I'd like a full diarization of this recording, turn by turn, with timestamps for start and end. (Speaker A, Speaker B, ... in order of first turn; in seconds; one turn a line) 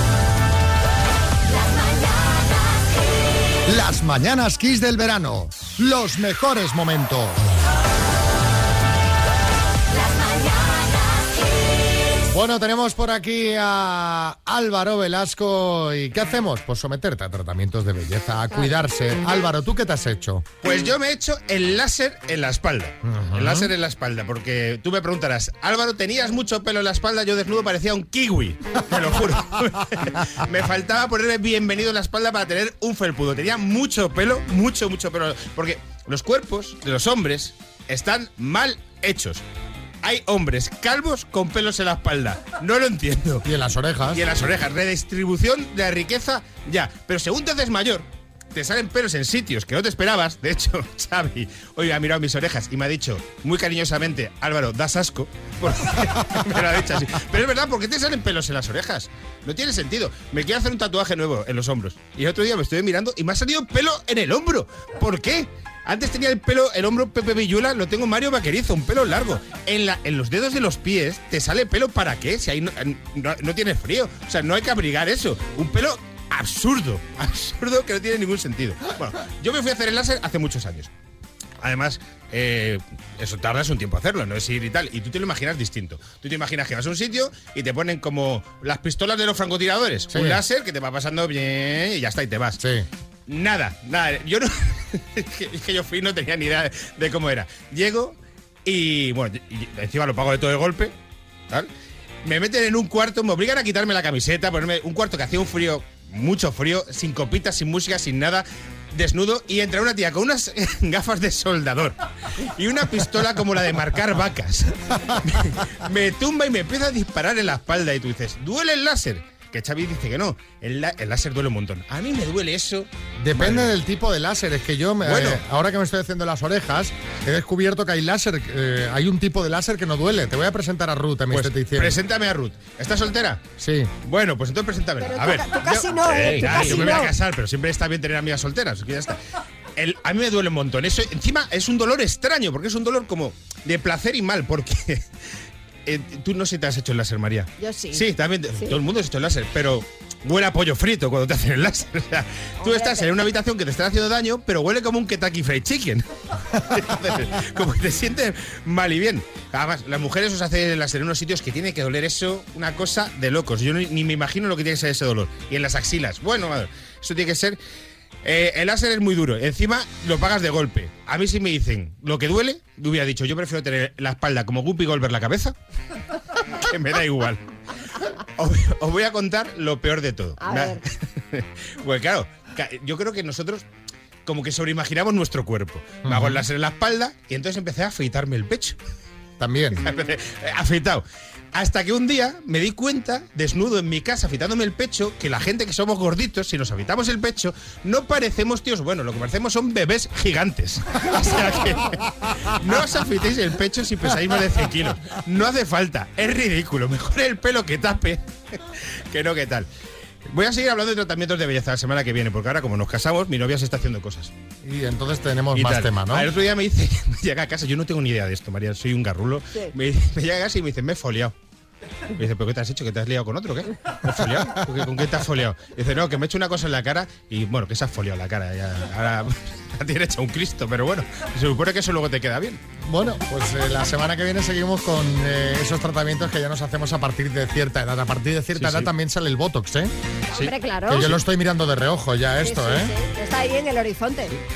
Speaker A: 3.7-7.5
Speaker A: 12.3-20.4
Speaker B: 20.6-39.4
Speaker A: 23.1-23.7
Speaker B: 40.0-43.5
Speaker A: 43.4-44.2
Speaker B: 44.1-80.9
Speaker B: 81.6-92.6
Speaker A: 90.1-90.4
Speaker A: 92.6-92.9
Speaker B: 93.3-100.9
Speaker B: 102.2-112.0
Speaker B: 112.5-123.7
Speaker A: 123.2-132.0
Speaker B: 125.1-125.4
Speaker B: 131.3-133.5
Speaker A: 133.6-133.9
Speaker B: 134.0-139.2
Speaker C: 135.0-137.1
Speaker B: 139.8-145.0
Speaker B: 145.9-167.6
Speaker C: 147.6-148.8
Speaker C: 152.6-153.1
Speaker B: 168.2-175.6
Speaker B: 176.6-177.4
Speaker B: 178.4-183.7
Speaker C: 180.4-180.8
Speaker B: 184.3-188.8
Speaker A: 186.0-186.4
Speaker A: 189.4-189.8
Speaker B: 189.8-191.0
Speaker B: 191.6-208.2
Speaker B: 209.1-209.7
Speaker B: 210.3-214.3
Speaker A: 214.6-216.3
Speaker B: 215.6-221.3
Speaker B: 222.2-232.6
Speaker A: 232.9-242.9
Speaker B: 238.6-238.9
Speaker C: 240.4-241.1
Speaker C: 242.4-244.4